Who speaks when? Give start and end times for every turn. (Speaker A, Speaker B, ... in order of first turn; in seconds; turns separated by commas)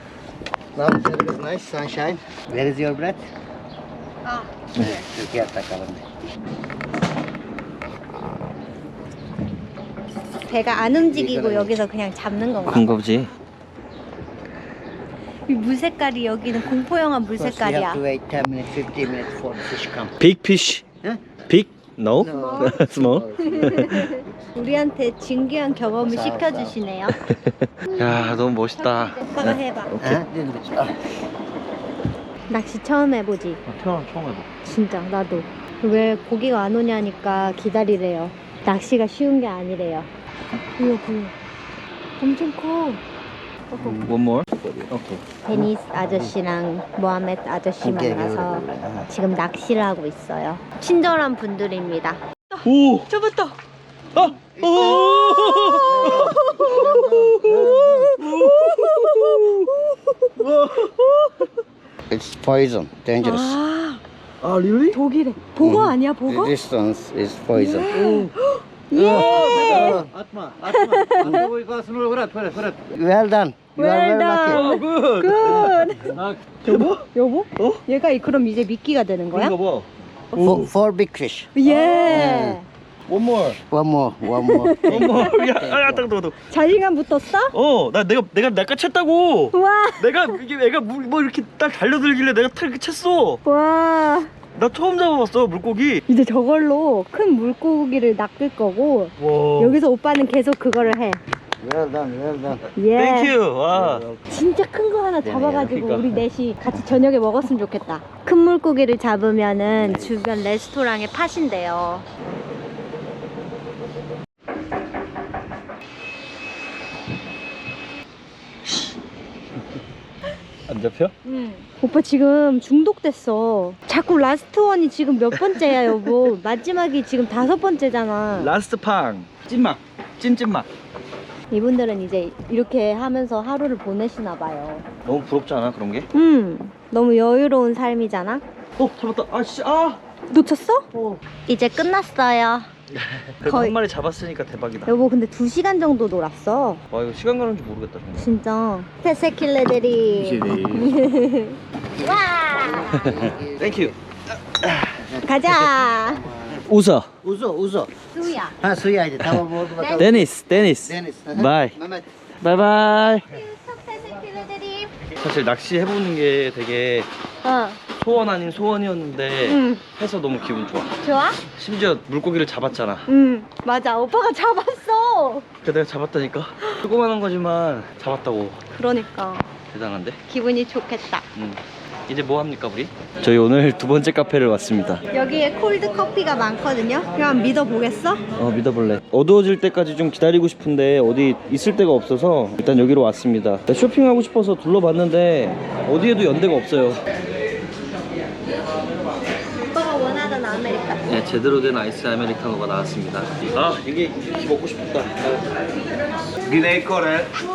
Speaker A: 0.7-3.2, Speaker B: 4.2-5.0, Speaker A: 4.8-6.0, Speaker B: 10.4-13.0, Speaker A: 11.1-11.8, Speaker C: 12.7-13.3, Speaker B: 15.5-18.0, Speaker A: 17.3-20.1, Speaker C: 20.2-20.9, Speaker A: 21.0-21.4, Speaker C: 21.5-24.1, Speaker A: 22.2-24.2, Speaker B: 22.3-22.8, Speaker B: 23.3-27.2, Speaker A: 26.0-26.7, Speaker C: 27.3-30.2, Speaker B: 27.9-29.9, Speaker A: 30.0-31.1, Speaker B: 32.5-33.6, Speaker C: 33.6-34.5, Speaker B: 34.6-40.1, Speaker B: 40.8-41.3, Speaker B: 42.2-43.0, Speaker B: 43.7-44.0, Speaker A: 43.8-44.0, Speaker C: 44.0-45.2, Speaker A: 44.6-44.9, Speaker B: 45.4-53.5, Speaker A: 45.5-46.3, Speaker A: 47.8-49.1, Speaker C: 52.6-53.1, Speaker C: 54.1-59.7, Speaker A: 54.2-58.2, Speaker B: 55.3-60.2, Speaker C: 60.4-61.5, Speaker A: 62.1-63.6, Speaker B: 63.2-64.0, Speaker C: 64.4-65.0, Speaker B: 64.9-66.5, Speaker A: 65.6-68.2, Speaker B: 67.5-70.0, Speaker C: 67.9-68.3, Speaker A: 68.9-74.6, Speaker C: 69.0-70.1, Speaker B: 70.7-71.5, Speaker B: 73.8-76.1, Speaker C: 74.5-77.0, Speaker B: 76.6-79.5, Speaker C: 77.6-77.8, Speaker C: 79.3-80.7, Speaker A: 80.3-81.5, Speaker B: 81.5-82.6, Speaker C: 81.6-82.4, Speaker A: 82.1-82.6, Speaker C: 83.1-83.6, Speaker A: 83.7-86.0, Speaker B: 84.4-85.3, Speaker C: 84.8-86.4, Speaker B: 86.5-87.5, Speaker C: 87.5-93.4, Speaker B: 89.5-90.4, Speaker B: 93.4-94.3, Speaker C: 94.5-96.0, Speaker B: 96.1-101.2, Speaker C: 99.2-99.8, Speaker A: 101.6-102.7, Speaker B: 102.8-103.3, Speaker C: 102.9-104.0, Speaker A: 103.7-104.3, Speaker B: 104.3-112.0, Speaker A: 105.2-105.7, Speaker C: 105.6-106.2, Speaker A: 109.8-110.2, Speaker C: 120.7-121.1, Speaker B: 121.2-128.5, Speaker C: 125.3-126.3, Speaker C: 128.3-130.7, Speaker B: 131.5-134.8, Speaker C: 135.0-136.1, Speaker B: 136.1-138.4, Speaker C: 138.8-140.0, Speaker B: 140.3-140.8, Speaker A: 140.9-141.2, Speaker B: 141.4-142.7, Speaker C: 142.9-144.9, Speaker B: 143.4-143.8, Speaker B: 144.8-146.8, Speaker C: 146.9-148.3, Speaker B: 148.2-153.3, Speaker C: 150.3-150.9, Speaker A: 152.0-153.9, Speaker C: 152.9-153.9, Speaker C: 154.5-155.0, Speaker A: 155.0-156.6, Speaker B: 155.2-156.3, Speaker C: 156.6-157.1, Speaker A: 157.2-157.9, Speaker B: 158.1-158.6, Speaker A: 158.5-160.3, Speaker C: 159.2-161.8, Speaker B: 159.7-160.2, Speaker A: 160.8-162.1, Speaker C: 162.4-163.3, Speaker B: 163.3-164.9, Speaker C: 165.2-167.1, Speaker B: 167.4-167.8, Speaker C: 168.0-171.0, Speaker B: 169.4-169.8, Speaker B: 171.0-171.4, Speaker C: 171.5-173.1, Speaker B: 173.1-175.4, Speaker C: 175.6-178.6, Speaker B: 178.7-179.5, Speaker C: 179.7-180.2, Speaker B: 180.3-181.2, Speaker C: 181.3-185.0, Speaker B: 185.1-188.2, Speaker C: 188.3-197.0, Speaker B: 199.7-201.0, Speaker C: 201.1-205.4, Speaker C: 206.4-207.4